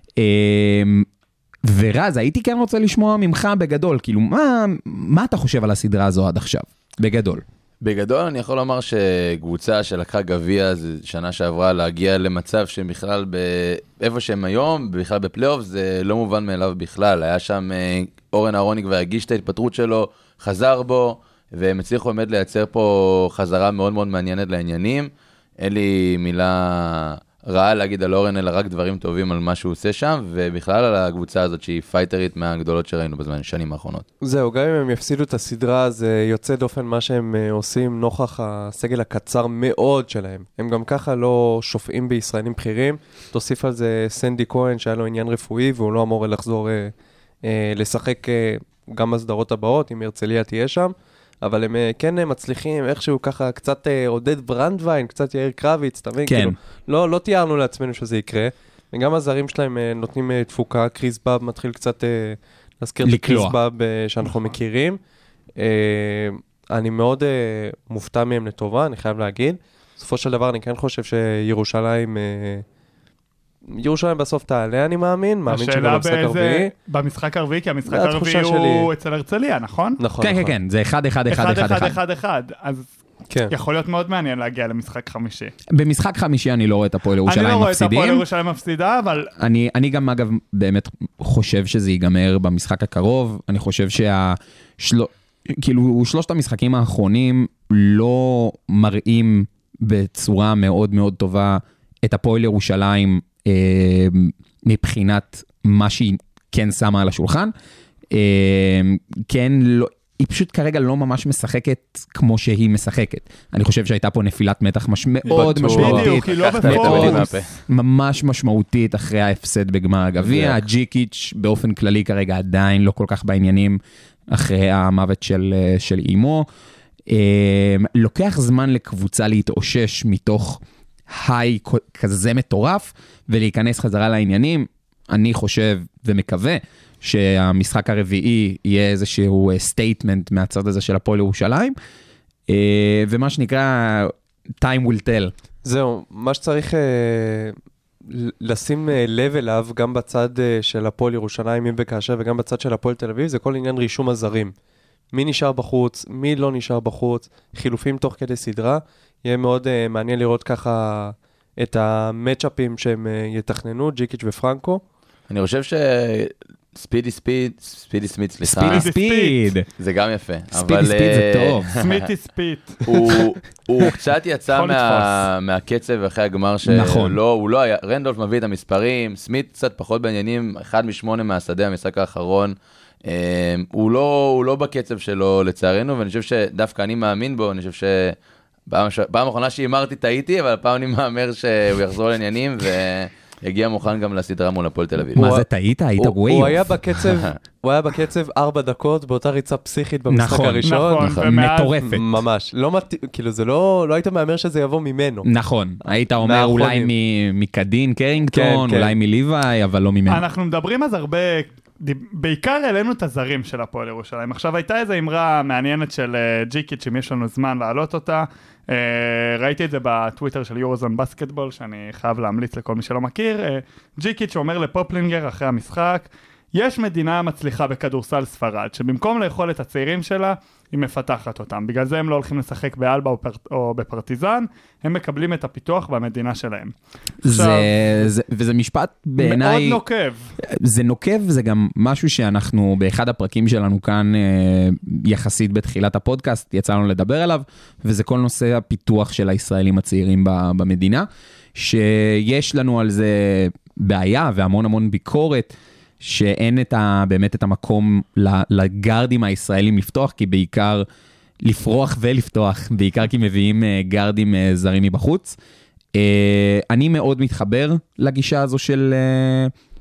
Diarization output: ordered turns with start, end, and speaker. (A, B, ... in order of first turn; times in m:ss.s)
0:00.2-0:01.1 A
0:01.6-0:07.4 A
0:07.8-0:34.1 B
0:34.2-1:05.0 C
0:56.2-0:56.6 A
1:03.0-1:03.6 A
1:05.6-1:12.6 C
1:13.7-1:16.7 C
1:15.5-1:20.0 D
1:17.9-1:18.9 C
1:20.0-1:20.5 C
1:20.2-1:22.0 A
1:21.3-1:22.9 D
1:23.5-1:25.5 D
1:25.7-1:28.2 A
1:27.3-1:29.3 D
1:29.4-1:47.5 A
1:48.1-2:06.5 A
1:55.3-1:56.1 C
1:55.3-1:57.3 D
1:55.7-1:57.5 B
2:00.2-2:00.6 B
2:07.1-2:21.8 A
2:22.5-2:25.3 A
2:25.6-2:27.6 C
2:28.1-2:34.5 C
2:35.1-2:44.8 C
2:45.3-2:48.9 B
2:48.4-2:49.7 A
2:48.7-2:49.5 D
2:49.8-2:52.0 B
2:50.5-2:51.7 A
2:51.7-2:53.0 D
2:52.8-3:08.2 B
2:54.5-2:55.2 D
2:56.6-2:57.2 A
3:08.7-3:15.4 B
3:15.2-3:16.7 A
3:15.2-3:15.4 C
3:16.2-3:21.1 C
3:17.0-3:17.4 B
3:20.1-3:22.0 A
3:20.6-3:21.8 D
3:21.8-3:25.3 C
3:25.2-3:30.2 A
3:26.2-3:26.9 C
3:28.3-3:28.9 C
3:30.1-3:56.7 D
3:57.2-3:59.8 A
3:57.2-3:57.7 D
3:59.2-4:00.2 D
4:00.4-4:20.9 A
4:21.4-4:25.4 A
4:26.0-4:29.5 A